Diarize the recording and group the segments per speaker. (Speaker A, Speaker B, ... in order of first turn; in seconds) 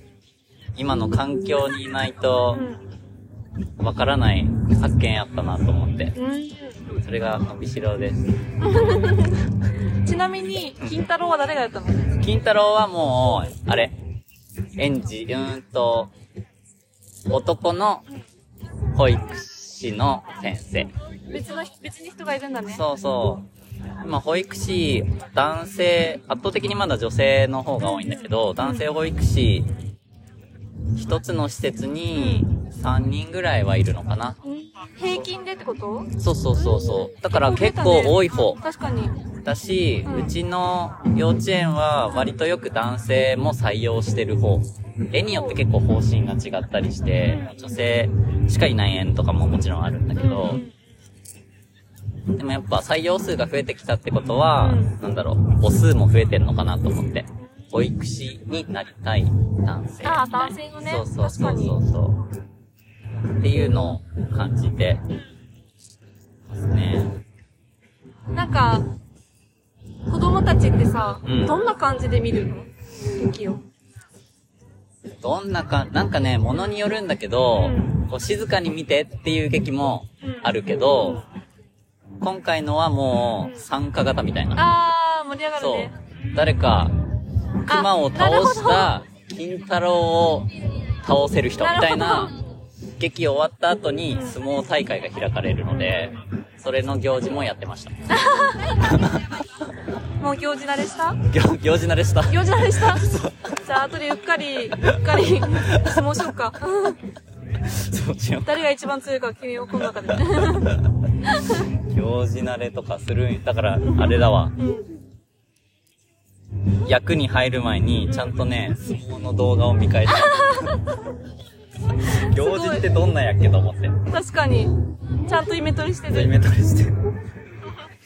Speaker A: 0.8-2.7, 3.8-6.2, 7.0-8.3, 10.8-11.1, 12.2-13.9, 14.8-16.1, 17.3-18.1, 18.9-20.9, 22.7-23.5, 24.0-29.7, 30.9-34.4, 36.2-38.6, 39.4-50.6, 52.3-62.2, 63.4-65.0, 66.5-67.2, 71.2-71.6, 75.2-81.2, 82.2-84.7, 85.6-87.0, 87.6-92.4, 93.0-98.0, 98.8-99.4, 101.2-103.6, 104.9-106.1, 107.6-108.6, 110.1-111.0, 111.6-114.6, 116.8-120.8, 122.2-124.1, 126.1-127.1
Speaker B: 2.5-2.8, 6.2-6.8, 8.6-12.1, 21.3-22.9, 27.8-28.9, 32.1-32.5, 34.4-39.2, 40.0-40.3, 45.2-45.6, 47.2-47.6, 50.2-50.7, 54.6-54.9, 60.0-61.8, 68.3-68.9, 70.1-73.6, 77.6-78.0, 80.2-81.2, 84.6-85.9, 87.7-88.9, 91.6-92.4, 94.1-94.4, 98.1-98.8, 100.2-101.2, 102.3-103.1, 103.6-107.0, 108.5-111.7, 113.9-114.9, 120.2-121.0, 122.0-122.9, 124.1-126.3